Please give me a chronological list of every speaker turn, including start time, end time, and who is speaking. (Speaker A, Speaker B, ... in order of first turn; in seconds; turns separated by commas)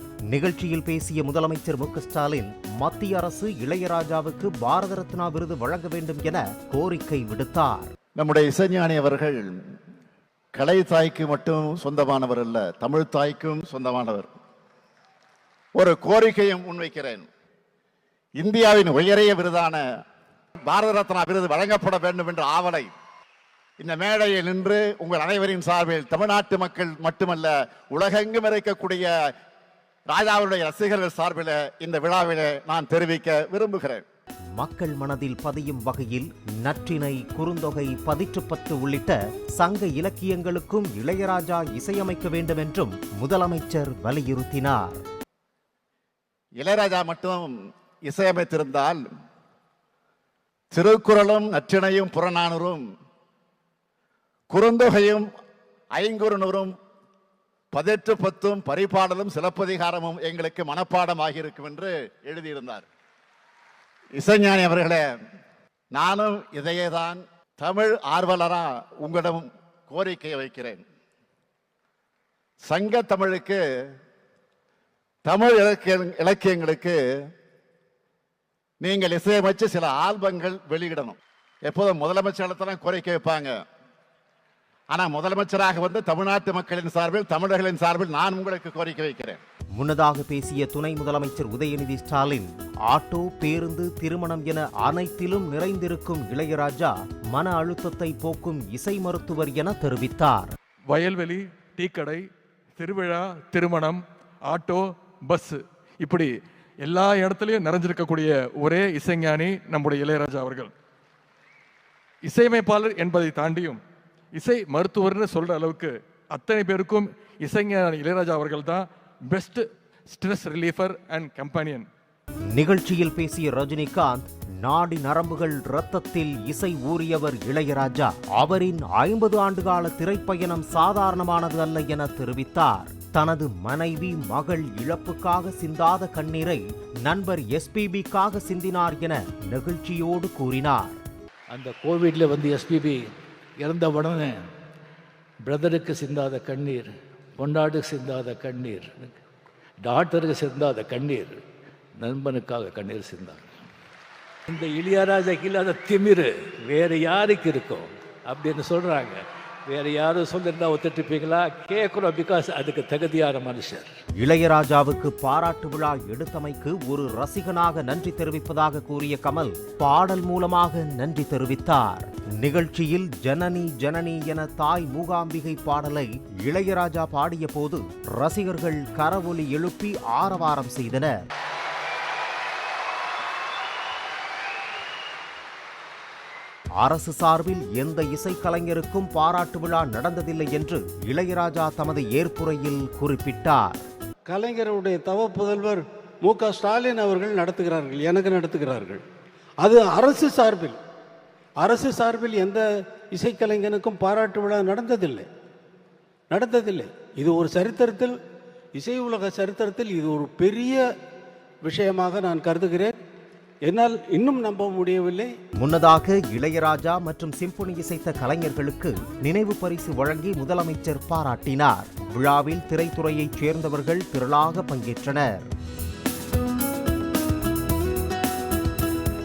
Speaker A: 0.3-7.9, Speaker B: 8.2-9.5, Speaker B: 10.5-14.3, Speaker B: 15.8-17.3, Speaker B: 18.4-19.8, Speaker B: 20.7-22.9, Speaker B: 23.8-29.1, Speaker B: 30.1-34.0, Speaker A: 34.6-45.0, Speaker B: 46.6-47.5, Speaker B: 48.0-49.0, Speaker B: 50.7-52.8, Speaker B: 54.5-55.2, Speaker B: 55.9-56.7, Speaker B: 57.7-62.9, Speaker B: 64.2-65.1, Speaker B: 65.9-70.8, Speaker B: 72.6-73.6, Speaker B: 75.2-77.0, Speaker B: 78.8-83.6, Speaker B: 84.9-89.4, Speaker A: 89.8-100.5, Speaker C: 100.9-102.2, Speaker C: 102.8-106.3, Speaker C: 106.8-110.7, Speaker C: 112.2-113.8, Speaker C: 114.3-121.9, Speaker A: 122.5-141.0, Speaker D: 141.5-144.5, Speaker D: 145.4-149.2, Speaker D: 149.8-151.4, Speaker D: 152.0-153.5, Speaker D: 154.5-163.9, Speaker A: 164.2-181.2, Speaker A: 186.8-193.8, Speaker E: 194.3-199.0, Speaker E: 199.6-200.8, Speaker E: 201.6-205.3, Speaker E: 206.3-208.1, Speaker E: 208.8-210.8, Speaker E: 211.6-212.9, Speaker E: 213.7-215.3, Speaker A: 215.6-225.5